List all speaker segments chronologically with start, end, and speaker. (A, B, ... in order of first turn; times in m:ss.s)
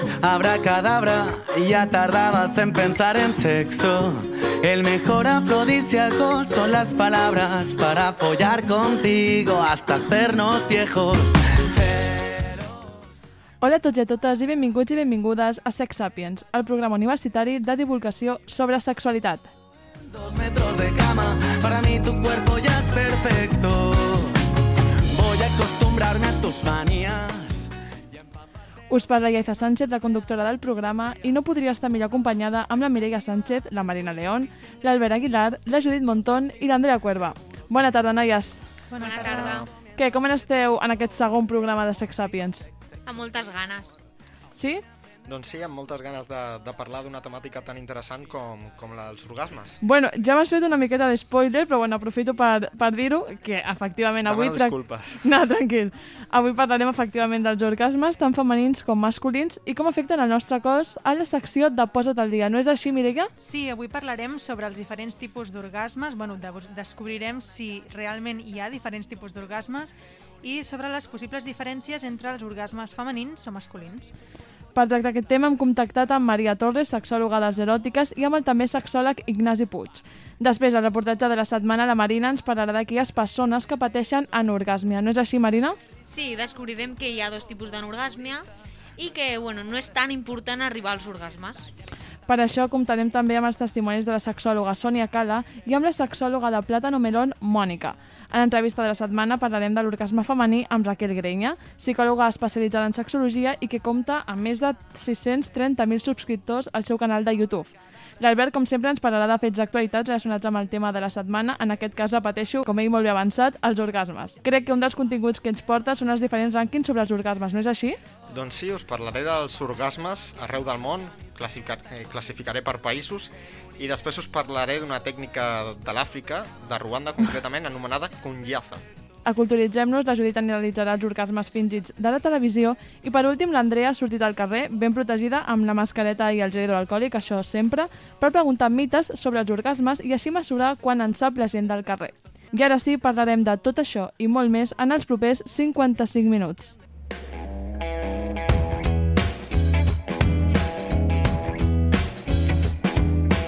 0:00.2-0:12.9 A
0:13.6-0:19.5 B
0:20.1-0:24.4 A
0:25.1-0:27.7 A
0:28.9-0:38.6 B
0:38.9-0:39.6 C
0:39.0-0:39.7 D
0:39.2-0:39.5 E
0:40.0-0:42.7 B
0:43.0-0:44.0 D
0:44.6-0:44.8 B
0:45.2-0:49.8 E
0:49.8-1:03.3 B
0:54.2-0:55.2 E
1:03.4-1:14.1 C
1:14.7-1:25.8 B
1:26.0-1:28.4 D
1:29.0-1:31.7 D
1:32.3-1:58.0 B
1:58.3-2:08.8 E
2:09.2-2:26.7 B